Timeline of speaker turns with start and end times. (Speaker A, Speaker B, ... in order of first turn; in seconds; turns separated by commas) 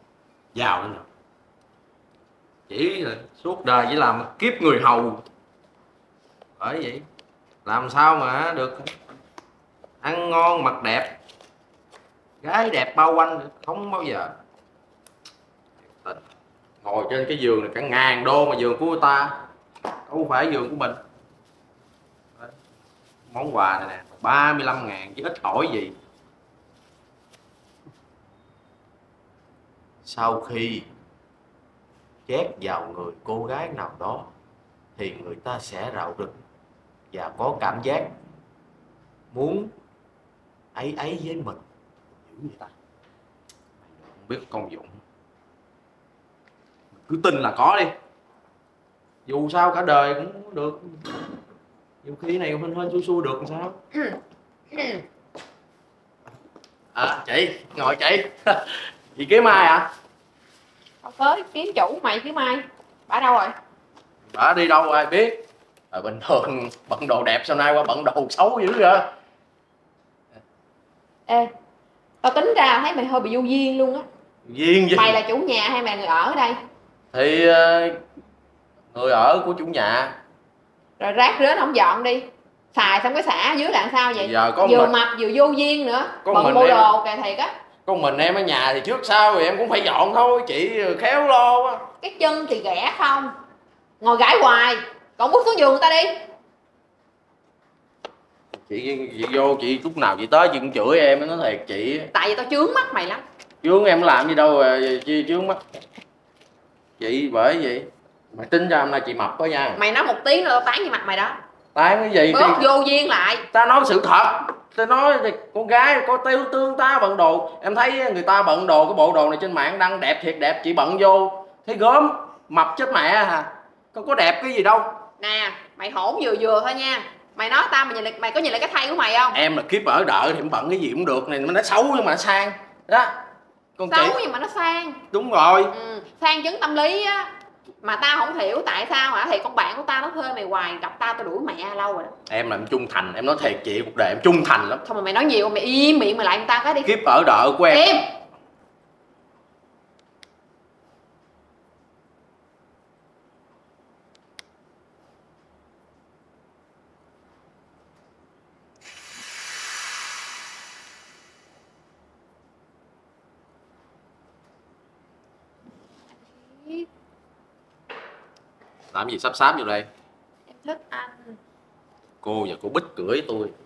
Speaker A: 0.6-1.1, Speaker A: 2.7-5.2, Speaker A: 6.6-7.0, Speaker A: 7.7-8.9, Speaker A: 10.0-11.1, Speaker A: 12.4-14.3, Speaker A: 16.8-19.3, Speaker A: 20.1-21.0, Speaker A: 23.3-25.9, Speaker A: 30.1-30.9, Speaker A: 32.3-34.3, Speaker A: 35.0-36.4, Speaker A: 37.1-38.1, Speaker A: 39.3-39.7, Speaker A: 40.8-42.7, Speaker A: 43.9-45.0, Speaker A: 46.9-47.9, Speaker A: 49.3-51.0, Speaker A: 52.0-53.8, Speaker B: 54.7-55.0, Speaker A: 57.0-59.9, Speaker B: 61.0-63.5, Speaker A: 64.3-65.4, Speaker A: 65.9-69.1, Speaker B: 72.2-74.1, Speaker A: 74.5-75.2, Speaker B: 74.9-76.6, Speaker A: 77.1-78.0, Speaker A: 78.9-80.2, Speaker B: 81.0-87.5, Speaker A: 84.2-85.0, Speaker A: 86.2-86.9, Speaker A: 87.9-91.8, Speaker B: 92.0-93.3, Speaker B: 94.0-96.1, Speaker A: 98.5-102.1, Speaker B: 102.1-103.2, Speaker A: 103.6-105.6, Speaker A: 107.0-109.8, Speaker B: 109.8-111.4, Speaker A: 111.8-112.6, Speaker B: 112.3-113.5, Speaker A: 113.5-124.9, Speaker B: 125.2-129.4, Speaker A: 129.3-133.1, Speaker A: 133.8-134.2, Speaker B: 133.9-135.0, Speaker A: 135.1-135.8, Speaker B: 135.7-142.1, Speaker A: 142.3-144.8, Speaker B: 144.8-146.9, Speaker A: 146.8-147.9, Speaker B: 147.7-148.1, Speaker B: 166.1-166.9, Speaker A: 168.9-169.9, Speaker B: 170.5-171.4, Speaker A: 172.2-173.5